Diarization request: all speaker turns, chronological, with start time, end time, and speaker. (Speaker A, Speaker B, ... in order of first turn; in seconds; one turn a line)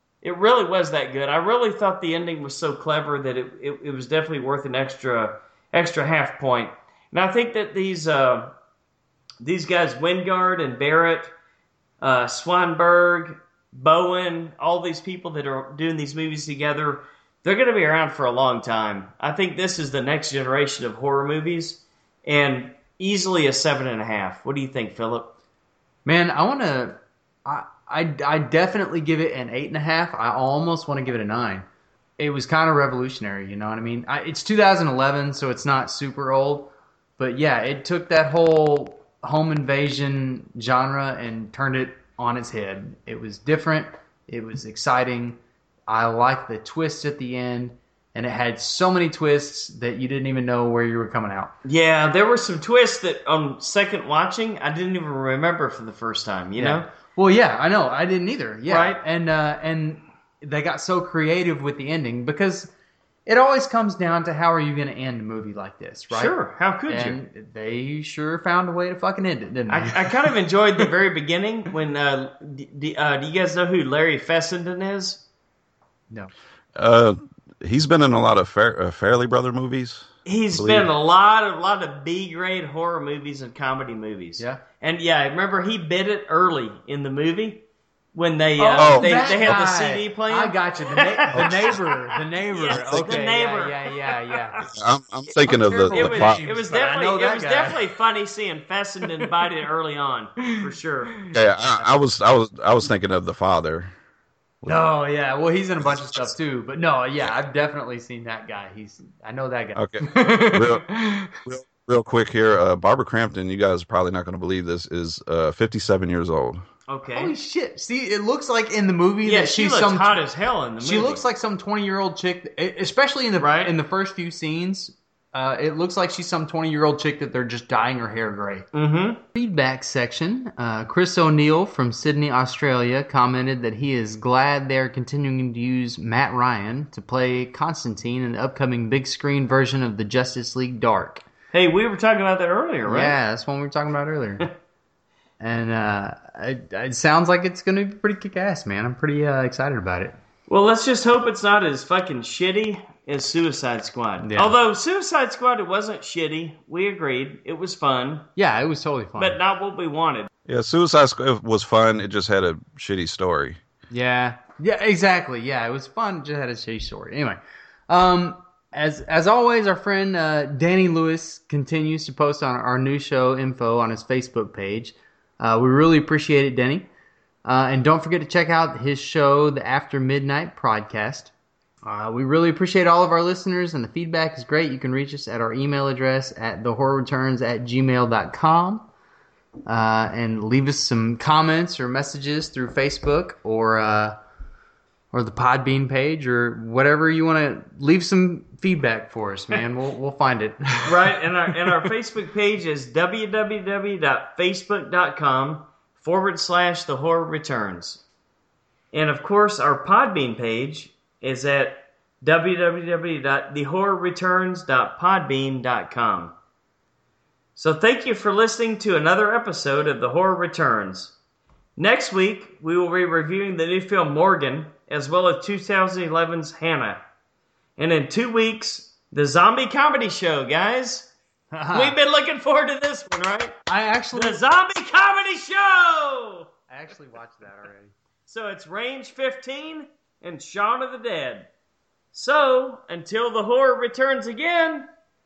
Speaker A: 0.2-8.5
Speaker A: 9.4-11.3
Speaker A: 12.0-25.4
Speaker B: 26.1-31.7
Speaker B: 32.2-51.5
Speaker A: 51.6-56.9
Speaker B: 56.6-62.7
Speaker A: 58.7-59.0
Speaker B: 63.3-66.3
Speaker A: 66.1-67.2
Speaker B: 66.9-70.2
Speaker A: 69.7-75.2
Speaker C: 76.8-80.9
Speaker A: 80.2-94.7
Speaker B: 88.6-94.7
Speaker C: 88.8-89.2
Speaker C: 91.3-91.6
Speaker C: 92.7-93.1
Speaker C: 94.7-96.4
Speaker B: 95.4-97.8
Speaker A: 95.9-101.2
Speaker C: 101.3-103.9
Speaker C: 104.6-104.9
Speaker B: 104.6-111.4
Speaker C: 109.8-110.9
Speaker C: 111.4-116.6
Speaker A: 116.9-117.3
Speaker B: 117.1-120.2
Speaker A: 119.2-121.2
Speaker B: 120.8-128.7
Speaker A: 123.4-123.7
Speaker A: 128.7-129.2
Speaker B: 129.3-141.2
Speaker A: 141.5-143.2
Speaker B: 142.9-144.5
Speaker B: 145.4-150.2
Speaker A: 150.5-158.3
Speaker B: 154.2-154.5
Speaker B: 158.4-159.4
Speaker A: 159.2-160.3
Speaker C: 160.5-163.6
Speaker B: 163.9-176.9
Speaker B: 177.4-181.3
Speaker B: 181.8-188.9
Speaker B: 189.7-194.2
Speaker B: 195.1-201.0
Speaker A: 200.8-208.0
Speaker A: 208.9-216.3
Speaker A: 217.6-221.1
Speaker A: 221.8-227.0
Speaker A: 227.8-231.1
Speaker B: 231.5-232.0
Speaker A: 231.7-233.6
Speaker B: 233.7-234.4
Speaker A: 234.1-236.5
Speaker B: 236.7-237.9
Speaker A: 238.3-241.5
Speaker A: 242.1-244.9